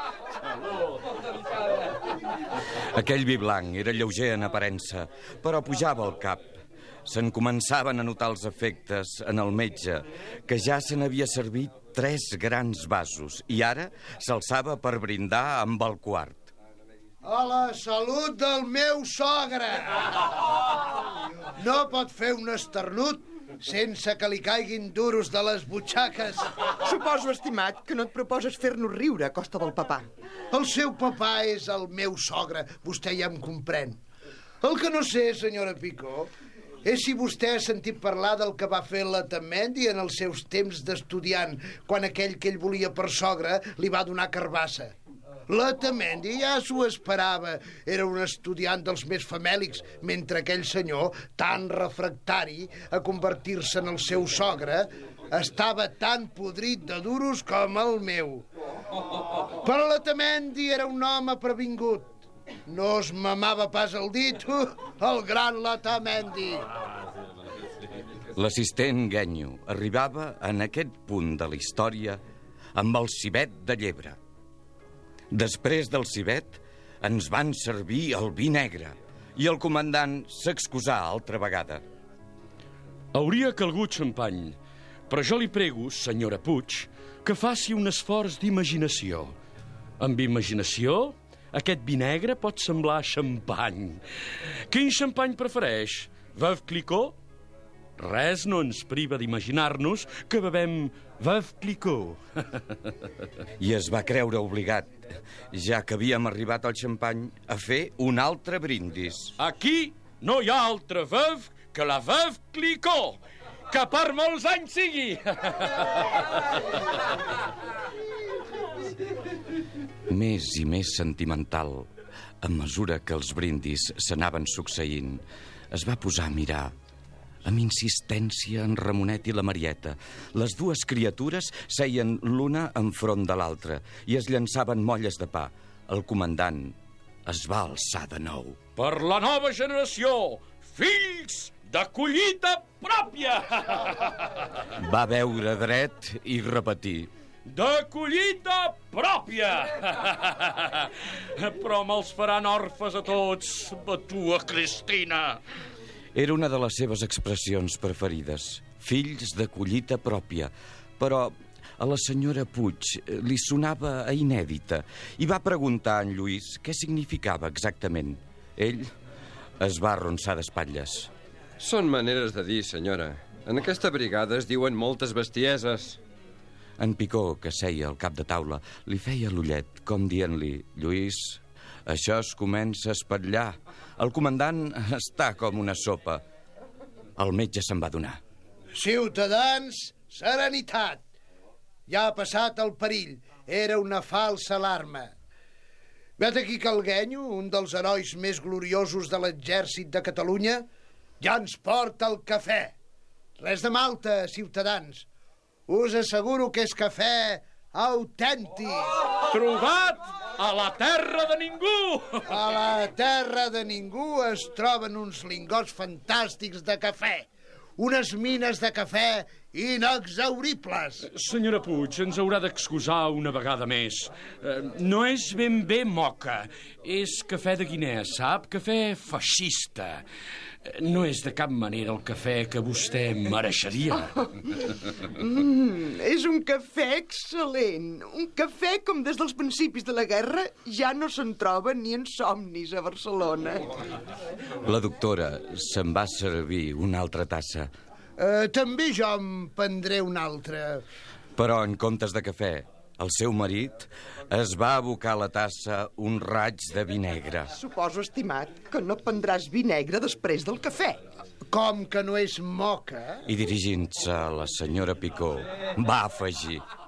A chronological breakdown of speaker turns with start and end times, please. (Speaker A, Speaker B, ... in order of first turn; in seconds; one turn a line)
Speaker A: 2.9-16.5
Speaker B: 17.2-20.1
Speaker B: 21.6-26.6
Speaker C: 26.9-30.1
Speaker B: 30.5-34.0
Speaker B: 34.6-36.3
Speaker B: 36.8-44.9
Speaker B: 45.5-58.5
Speaker B: 59.6-66.7
Speaker A: 68.3-72.2
Speaker A: 72.8-74.2
Speaker A: 75.3-81.8
Speaker D: 83.1-84.6
Speaker D: 85.1-89.3
Speaker D: 90.0-94.0
Speaker D: 94.7-97.2
Speaker D: 98.0-102.2
Speaker A: 103.6-109.3
Speaker D: 109.4-113.2
Speaker D: 113.7-116.4
Speaker A: 120.1-121.9
Speaker A: 122.4-126.7
Speaker A: 127.5-138.6
Speaker D: 138.8-144.3
Speaker A: 144.8-147.1
Speaker D: 147.5-155.4
Speaker A: 156.2-168.9
Speaker A: 169.6-171.1
Speaker E: 171.6-176.0
Speaker A: 176.8-186.2
Speaker A: 187.2-188.2
Speaker B: 188.7-191.0
Speaker B: 191.9-195.1
Speaker B: 196.2-200.7
Speaker B: 201.2-202.7
Speaker B: 203.4-205.1
Speaker B: 205.7-208.9
Speaker D: 209.3-212.2
Speaker B: 212.3-221.1
Speaker D: 221.1-230.0
Speaker D: 230.7-234.2
Speaker C: 233.9-234.5
Speaker C: 235.2-243.7
Speaker A: 244.6-247.7
Speaker B: 248.2-250.8
Speaker A: 251.4-257.5
Speaker C: 257.6-261.1
Speaker B: 261.5-263.2
Speaker A: 263.3-266.6